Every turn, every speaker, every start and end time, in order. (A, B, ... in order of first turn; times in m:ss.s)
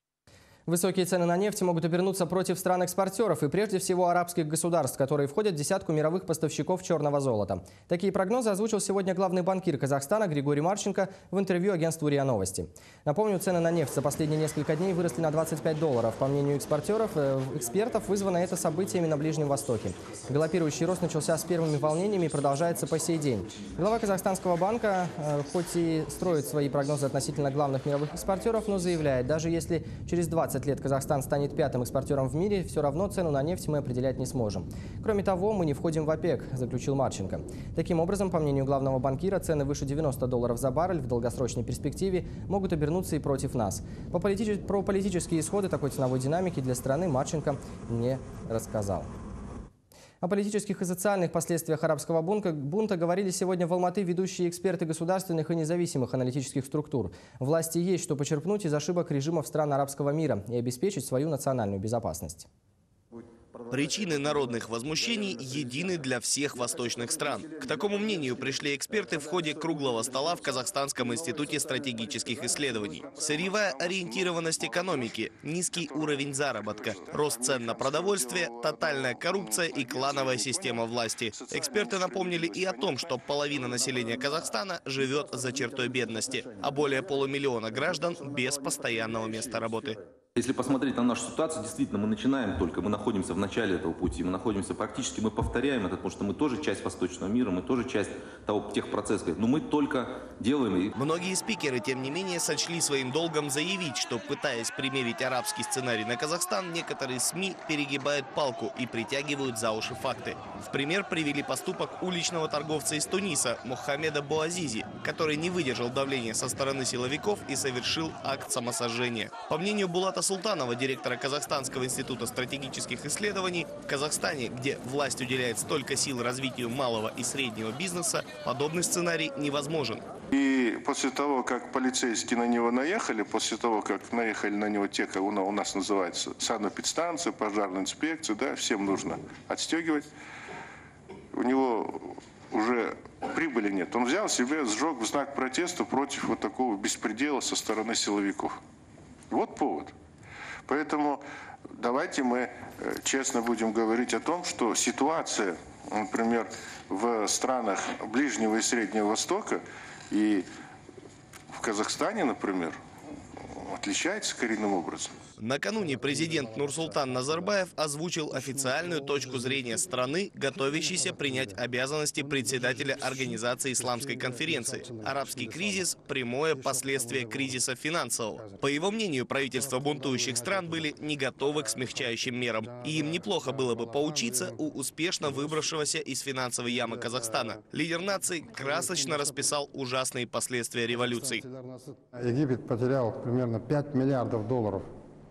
0:00.7-0:49.1 A
0:50.2-1:02.5 A
1:03.7-1:30.0 B
1:13.2-1:15.1 C
1:15.7-1:23.2 C
1:30.4-1:40.9 D
1:40.9-2:10.0 B
2:10.3-2:20.1 C
2:21.3-2:28.6 C
2:29.3-2:29.9 C
2:30.6-2:31.2 C
2:31.8-2:40.5 C
2:41.5-2:42.8 C
2:43.6-2:45.2 C
2:45.4-3:11.4 B
2:45.9-2:47.5 E
2:48.4-2:49.9 E
2:50.5-2:51.6 E
2:52.2-2:55.9 E
2:56.5-2:57.6 E
2:58.3-2:58.6 E
2:59.5-3:04.6 E
3:05.3-3:05.6 E
3:06.7-3:07.6 E
3:08.5-3:09.4 E
3:10.9-3:14.9 E